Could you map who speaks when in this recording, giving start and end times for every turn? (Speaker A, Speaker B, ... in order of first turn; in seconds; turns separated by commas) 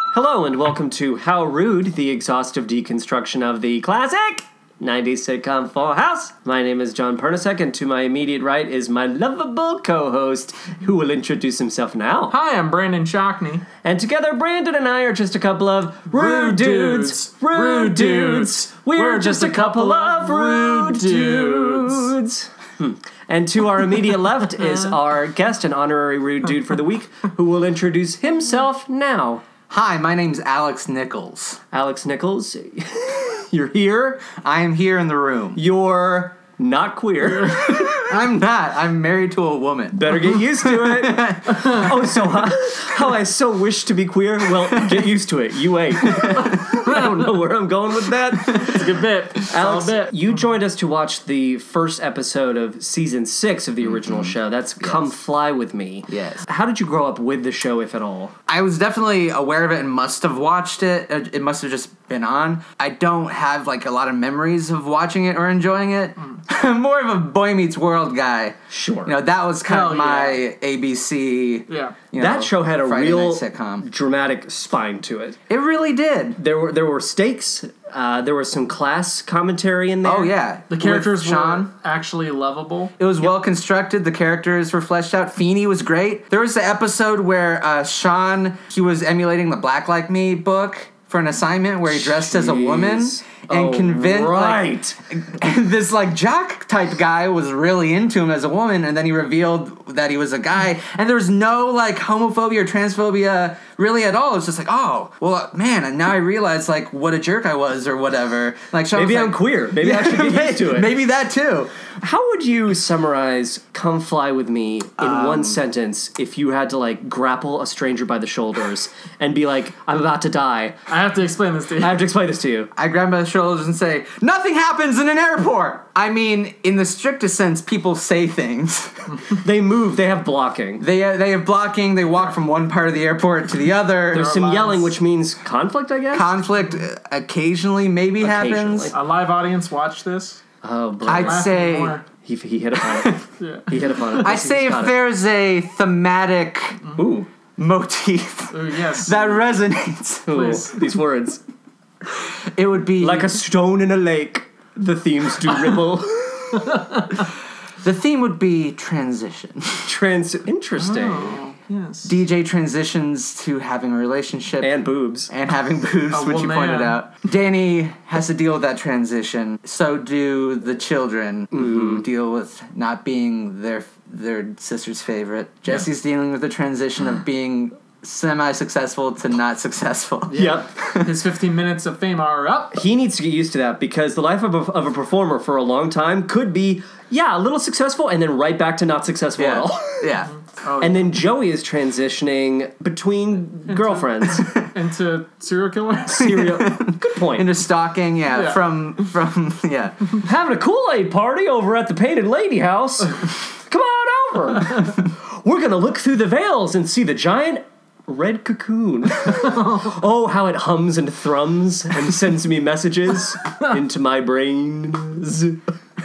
Speaker A: 0.1-12.3, Speaker B: 12.3-13.7, Speaker A: 13.8-29.4, Speaker B: 16.1-22.1, Speaker B: 24.6-24.9, Speaker C: 29.7-31.6, Speaker A: 31.7-34.2, Speaker C: 34.3-35.6, Speaker A: 35.5-37.8, Speaker C: 37.5-41.9, Speaker A: 39.9-48.8, Speaker B: 48.5-50.3, Speaker A: 49.5-58.3, Speaker C: 53.8-55.1, Speaker C: 56.1-56.4, Speaker C: 58.5-73.8, Speaker A: 68.7-69.2, Speaker B: 69.7-70.5, Speaker B: 71.7-72.0, Speaker A: 72.2-75.4, Speaker C: 75.5-76.4, Speaker A: 76.4-80.3, Speaker C: 80.0-81.7, Speaker B: 80.7-82.9, Speaker C: 83.0-111.7, Speaker A: 91.9-95.0, Speaker A: 108.9-110.9, Speaker A: 112.0-120.8, Speaker C: 115.0-115.6, Speaker B: 120.9-122.0, Speaker A: 121.8-122.7, Speaker C: 122.8-129.1, Speaker A: 129.4-130.8, Speaker C: 130.8-134.3, Speaker A: 134.1-136.4, Speaker B: 134.1-135.0, Speaker C: 136.1-138.9, Speaker A: 138.2-138.9, Speaker B: 138.9-140.4, Speaker A: 140.6-141.4, Speaker C: 141.1-142.0, Speaker B: 141.1-142.0, Speaker A: 142.2-144.9, Speaker C: 142.9-143.2, Speaker B: 143.4-144.3, Speaker C: 144.2-146.8, Speaker A: 146.9-147.3, Speaker C: 147.6-150.6, Speaker B: 148.5-149.5, Speaker A: 150.3-151.4, Speaker B: 150.3-150.8, Speaker C: 152.4-153.4, Speaker A: 153.0-156.8, Speaker B: 156.7-157.2, Speaker C: 157.8-159.9, Speaker A: 159.9-161.4, Speaker B: 160.8-162.2, Speaker C: 162.0-181.2, Speaker A: 164.6-165.3, Speaker B: 166.1-167.0, Speaker A: 171.5-172.0, Speaker A: 180.3-180.7, Speaker B: 180.3-182.8, Speaker A: 182.7-190.1, Speaker C: 189.4-190.3, Speaker B: 190.5-191.1, Speaker A: 190.8-194.5, Speaker B: 193.7-196.4, Speaker A: 196.1-197.5, Speaker C: 196.3-200.2, Speaker B: 198.3-198.6, Speaker A: 200.2-215.6